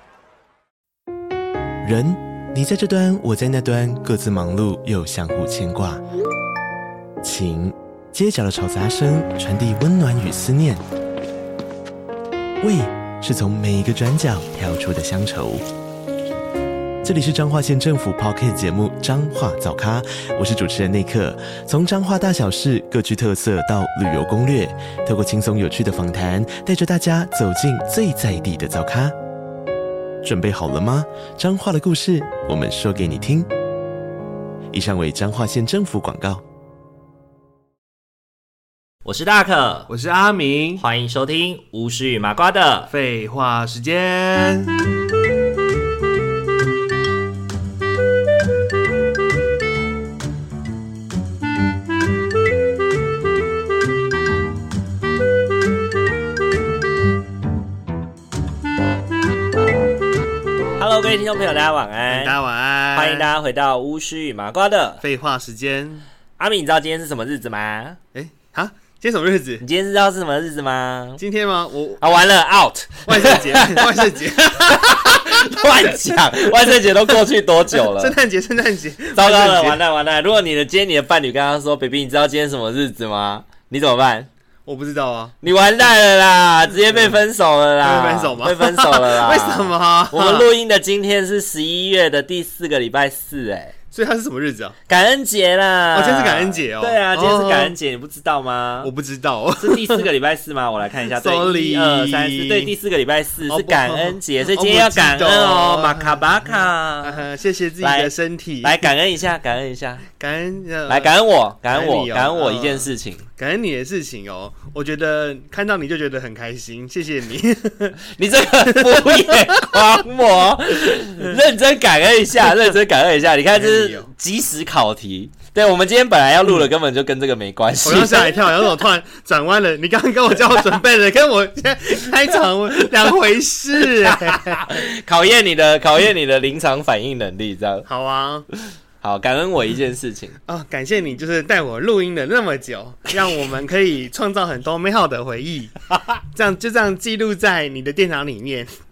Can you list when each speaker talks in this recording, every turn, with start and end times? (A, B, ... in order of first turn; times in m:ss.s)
0:01.8-0:06.0 A
0:07.2-0:10.8 A
0:12.6-0:15.6 A
0:17.0-0:29.2 A
0:30.2-0:33.5 A
0:34.7-0:36.4 A
0:39.0-0:39.9 B
0:39.9-0:40.8 C
0:40.8-0:42.9 B
0:42.9-0:44.9 C
1:00.8-1:02.4 B
1:02.1-1:03.3 C
1:02.9-1:05.0 B
1:05.0-1:06.1 C
1:06.4-1:08.0 B
1:08.1-1:09.6 C
1:09.6-1:11.2 B
1:11.2-1:12.0 C
1:12.0-1:14.0 B
1:13.0-1:15.3 C
1:14.6-1:18.2 B
1:17.7-1:19.8 C
1:19.1-1:24.3 B
1:24.6-1:25.3 C
1:25.4-1:33.7 B
1:26.9-1:27.2 C
1:27.8-1:30.5 C
1:33.9-1:34.8 C
1:34.9-1:38.9 B
1:35.9-1:37.7 C
1:38.8-1:40.0 C
1:39.6-1:47.2 B
1:41.1-1:42.7 C
1:43.5-1:48.9 C
1:47.8-1:48.1 B
1:48.6-1:50.1 B
1:50.2-1:51.1 C
1:50.9-1:53.3 B
1:51.7-1:58.0 C
1:58.1-2:08.4 B
1:58.6-1:59.8 C
2:03.5-2:04.1 C
2:07.8-2:14.6 C
2:13.8-2:17.9 B
2:17.9-2:18.5 C
2:19.0-2:20.4 B
2:20.5-2:28.7 C